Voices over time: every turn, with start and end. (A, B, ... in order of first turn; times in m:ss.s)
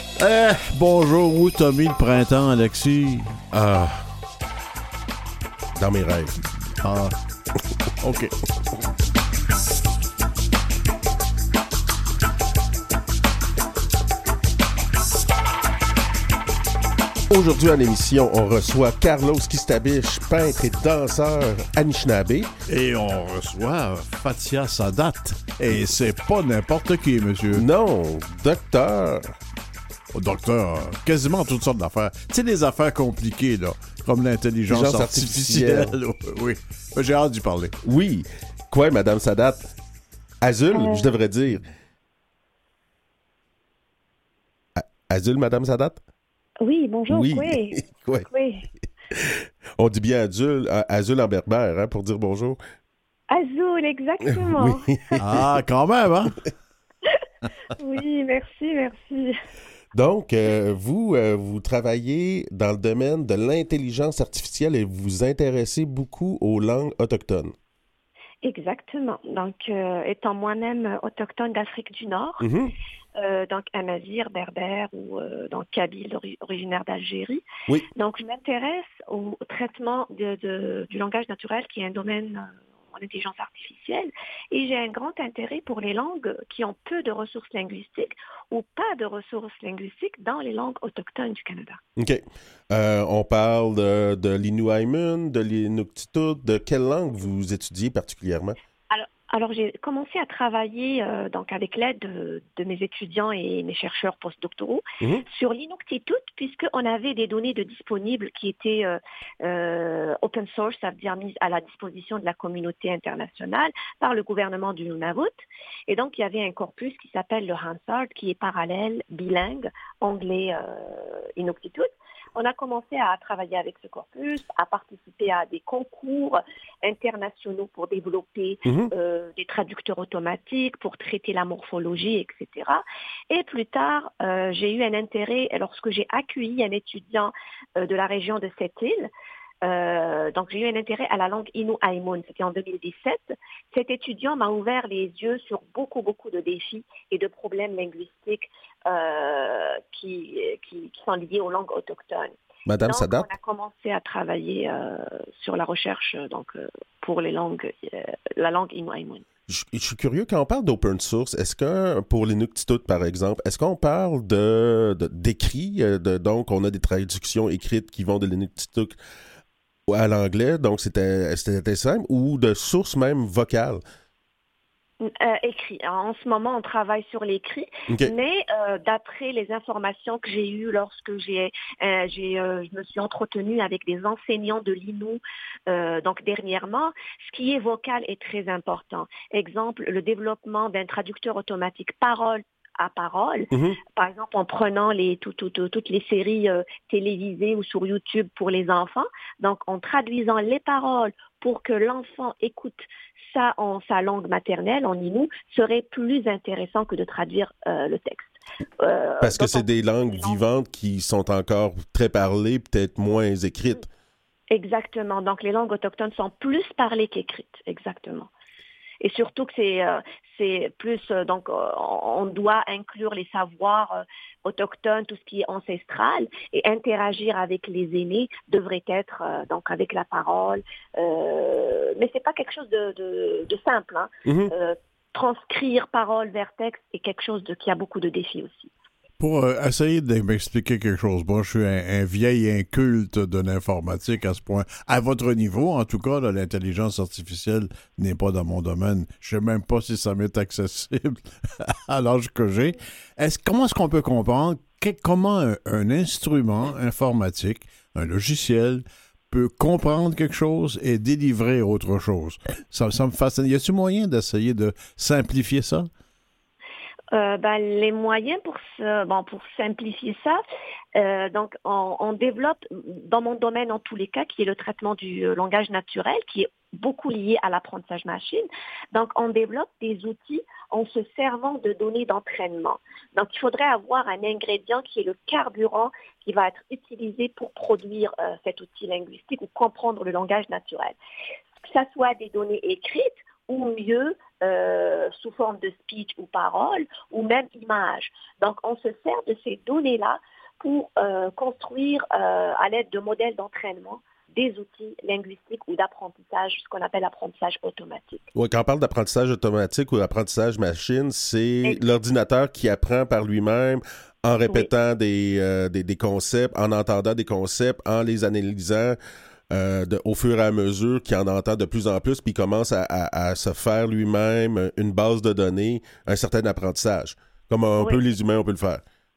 0:00.2-0:03.4 A
0:03.5-0:04.0 B
0:05.8-0:06.3 B
0:06.8-0:07.1 A
0:08.0-0:08.3 A
0:17.3-0:22.5 B
0:22.7-0:27.6 A
0:27.5-0:29.3 B
0:30.1-0:37.8 A
0:34.7-0:35.9 B
0:37.8-0:39.7 B
0:40.4-0:41.7 B
0:40.7-0:41.1 C
0:44.8-0:46.0 B
0:46.6-0:48.7 C
0:47.1-0:48.3 B
0:49.1-0:52.6 B
0:53.3-0:55.1 C
0:54.3-0:55.2 B
0:55.2-0:56.4 A
0:57.8-0:59.3 C
0:59.9-1:07.5 B
1:08.4-1:12.4 C
1:12.4-1:12.7 B
1:13.2-1:31.8 C
1:32.0-1:38.6 B
1:38.9-2:19.1 C
2:08.6-2:08.9 B
2:19.6-2:39.2 C
2:32.7-2:33.3 B
2:39.5-2:49.0 B
2:49.9-2:53.8 B
2:55.0-3:30.4 C
3:13.5-3:13.8 B
3:29.2-3:33.8 B
3:34.5-3:38.3 C
3:39.0-3:58.7 C
3:54.2-3:54.5 B
3:59.2-4:25.9 A
4:27.1-4:30.4 C
4:30.9-4:51.0 C
4:51.6-5:08.3 C
5:08.3-5:19.0 B
5:19.5-5:28.8 B